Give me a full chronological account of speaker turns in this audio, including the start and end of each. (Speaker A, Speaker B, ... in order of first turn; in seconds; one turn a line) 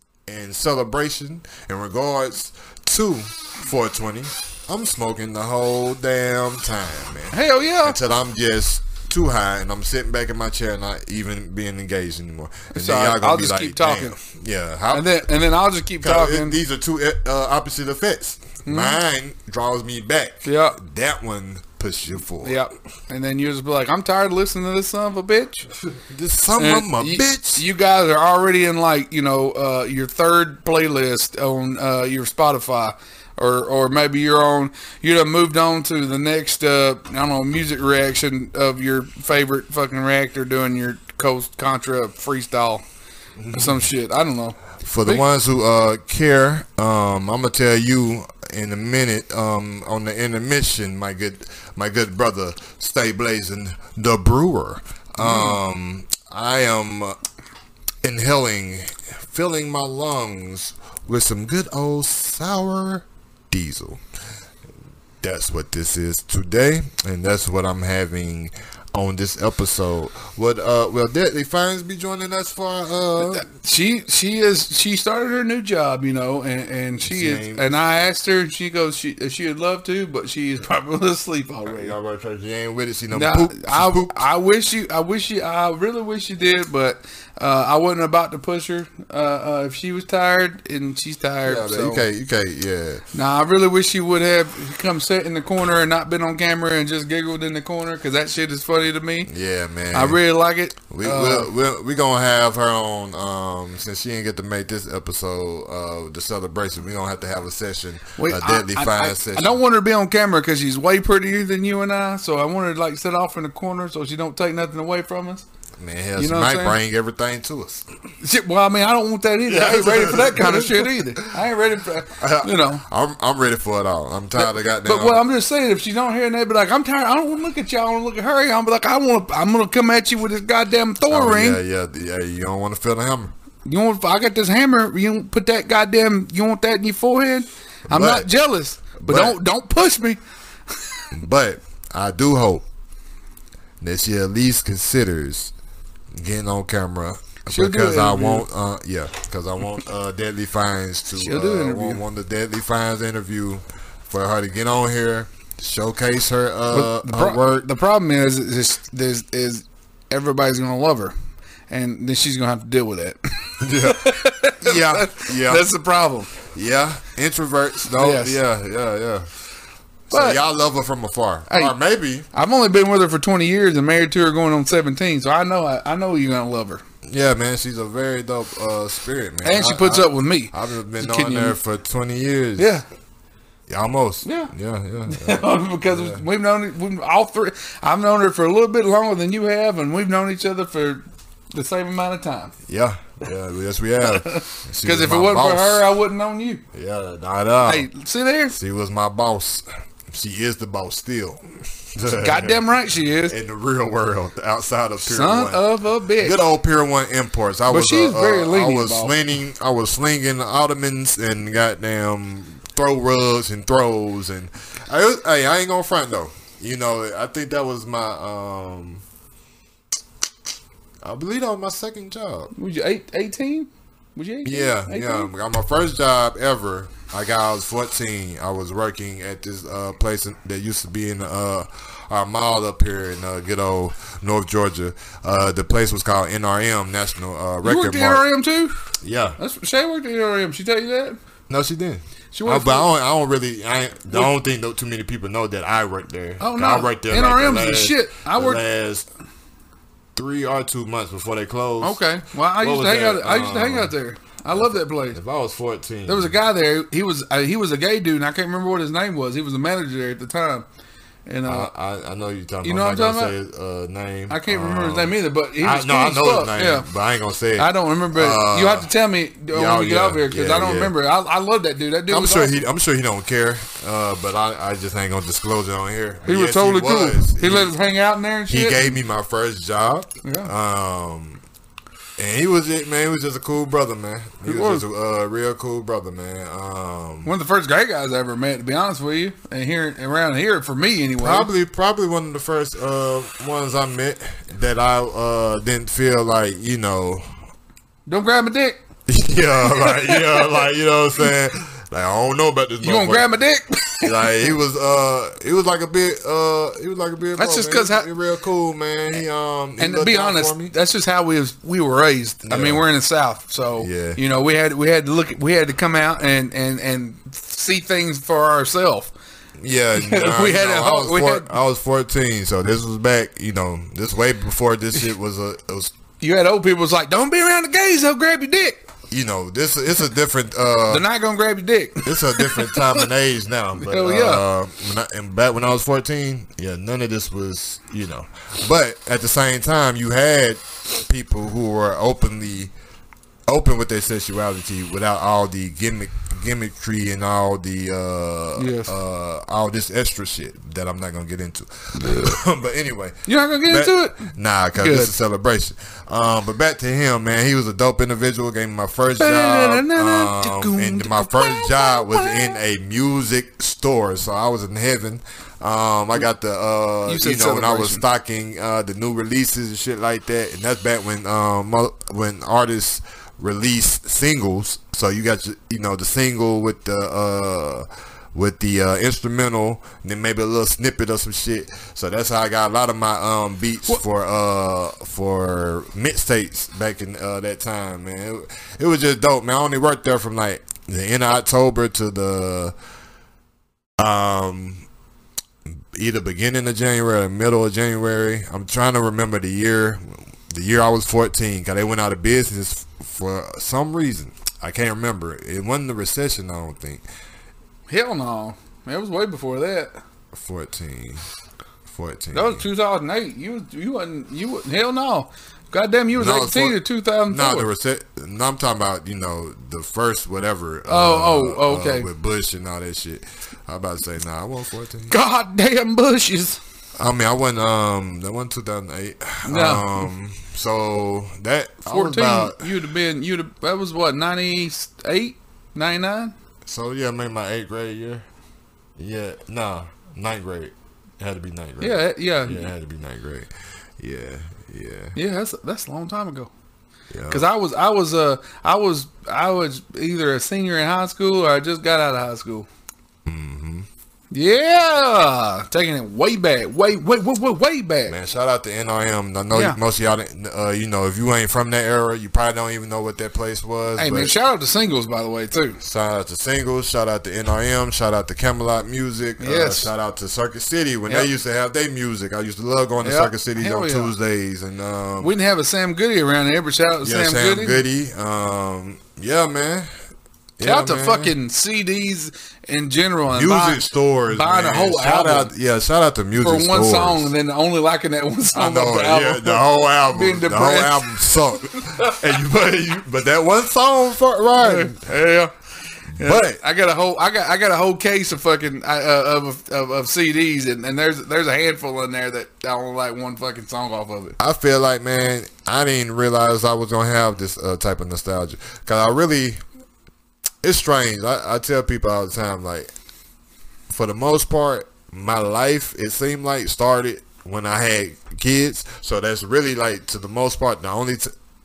Speaker A: 0.3-15.1
Speaker B: 7.3-8.0
Speaker B: 12.7-14.2
Speaker B: 14.9-16.6
Speaker A: 16.0-22.6
Speaker B: 18.7-19.0
Speaker B: 20.4-20.8
Speaker B: 22.4-25.7
Speaker A: 26.1-27.6
Speaker B: 26.6-42.8
Speaker A: 43.4-43.9
Speaker B: 43.5-45.3
Speaker A: 44.8-57.2
Speaker B: 55.2-55.6
Speaker A: 58.0-64.0
Speaker A: 65.2-73.5
Speaker B: 73.2-82.0
Speaker A: 77.0-77.7
Speaker A: 81.7-84.2
Speaker B: 83.1-92.1
Speaker A: 91.4-93.0
Speaker B: 93.1-99.3
Speaker A: 99.3-100.2
Speaker B: 99.9-101.5
Speaker A: 100.9-109.6
Speaker B: 108.2-115.5
Speaker A: 115.8-117.9
Speaker B: 116.2-116.8
Speaker B: 118.2-122.8
Speaker A: 119.5-121.4
Speaker A: 122.2-125.2
Speaker B: 124.4-131.6
Speaker A: 131.1-133.3
Speaker B: 133.7-140.2
Speaker A: 137.9-138.3
Speaker A: 139.0-139.4
Speaker B: 140.7-141.1
Speaker A: 141.1-142.7
Speaker A: 143.8-145.5
Speaker A: 146.1-157.7
Speaker B: 147.5-148.5
Speaker B: 151.2-152.0
Speaker B: 156.7-161.1
Speaker B: 161.7-166.3
Speaker A: 163.6-165.7
Speaker A: 166.5-169.3
Speaker B: 168.0-168.4
Speaker A: 170.1-172.3
Speaker B: 170.1-170.4
Speaker B: 171.5-171.8
Speaker B: 172.3-176.8
Speaker A: 177.1-182.8
Speaker B: 179.4-181.6
Speaker B: 182.6-182.8
Speaker A: 183.7-186.2
Speaker B: 184.2-184.5
Speaker B: 185.1-192.5
Speaker A: 192.7-195.9
Speaker B: 194.0-196.6
Speaker A: 196.7-197.9
Speaker B: 197.7-198.6
Speaker A: 198.5-202.6
Speaker B: 202.2-203.3
Speaker A: 203.3-205.7
Speaker B: 205.1-206.4
Speaker A: 206.2-219.0
Speaker B: 207.7-209.2
Speaker A: 221.0-222.5
Speaker B: 222.5-225.3
Speaker A: 224.4-238.3
Speaker B: 237.6-241.2
Speaker A: 239.0-239.4
Speaker A: 241.5-249.1
Speaker B: 242.3-242.9
Speaker B: 246.4-248.6
Speaker A: 250.2-252.0
Speaker B: 251.8-255.2
Speaker A: 252.6-253.9
Speaker A: 254.5-256.4
Speaker B: 256.1-260.7
Speaker B: 261.3-261.7
Speaker A: 261.5-268.9
Speaker B: 262.6-263.4
Speaker B: 264.3-266.9
Speaker B: 267.6-272.6
Speaker A: 269.5-270.9
Speaker A: 272.1-277.8
Speaker B: 276.3-279.0
Speaker A: 278.5-281.4
Speaker B: 280.2-280.5
Speaker A: 282.2-287.3
Speaker B: 284.4-284.9
Speaker B: 287.2-291.5
Speaker A: 291.2-297.4
Speaker B: 298.1-298.8
Speaker A: 299.1-303.3
Speaker B: 299.6-300.7
Speaker B: 302.8-304.2
Speaker A: 304.0-310.7
Speaker B: 307.4-308.1
Speaker B: 309.8-319.1
Speaker A: 312.4-312.9
Speaker A: 313.8-314.2
Speaker A: 319.6-325.9
Speaker B: 320.0-321.5
Speaker B: 326.2-328.8
Speaker A: 329.1-331.1
Speaker B: 330.9-333.1
Speaker A: 332.0-342.7
Speaker B: 333.8-334.4
Speaker A: 343.5-392.8
Speaker B: 348.6-348.9
Speaker B: 352.0-352.4
Speaker B: 353.3-355.1
Speaker B: 359.2-362.6
Speaker B: 367.1-368.0
Speaker A: 394.0-394.9
Speaker A: 395.7-407.0
Speaker B: 407.9-410.0
Speaker A: 410.3-411.3
Speaker A: 411.9-412.7
Speaker B: 412.3-417.7
Speaker A: 416.1-425.1
Speaker B: 420.9-422.1
Speaker B: 425.1-426.6
Speaker A: 427.0-432.8
Speaker B: 429.4-430.1
Speaker B: 431.9-436.3
Speaker A: 436.6-438.3
Speaker A: 439.0-445.2
Speaker B: 441.8-442.7
Speaker B: 445.1-446.5
Speaker A: 447.1-447.5
Speaker B: 447.3-452.7
Speaker A: 453.3-453.9
Speaker B: 454.3-458.2
Speaker A: 458.1-464.4
Speaker B: 459.5-459.8
Speaker B: 464.0-465.8
Speaker A: 465.8-475.3
Speaker B: 469.4-469.9
Speaker B: 473.0-474.1
Speaker B: 475.2-477.8
Speaker A: 477.0-479.9
Speaker A: 480.6-481.4
Speaker B: 480.6-485.5
Speaker A: 483.3-487.3
Speaker B: 486.4-492.1
Speaker A: 488.5-495.0
Speaker B: 494.6-495.5
Speaker A: 496.1-496.6
Speaker B: 496.2-504.4
Speaker A: 504.4-509.6
Speaker A: 510.6-512.9
Speaker A: 513.9-521.3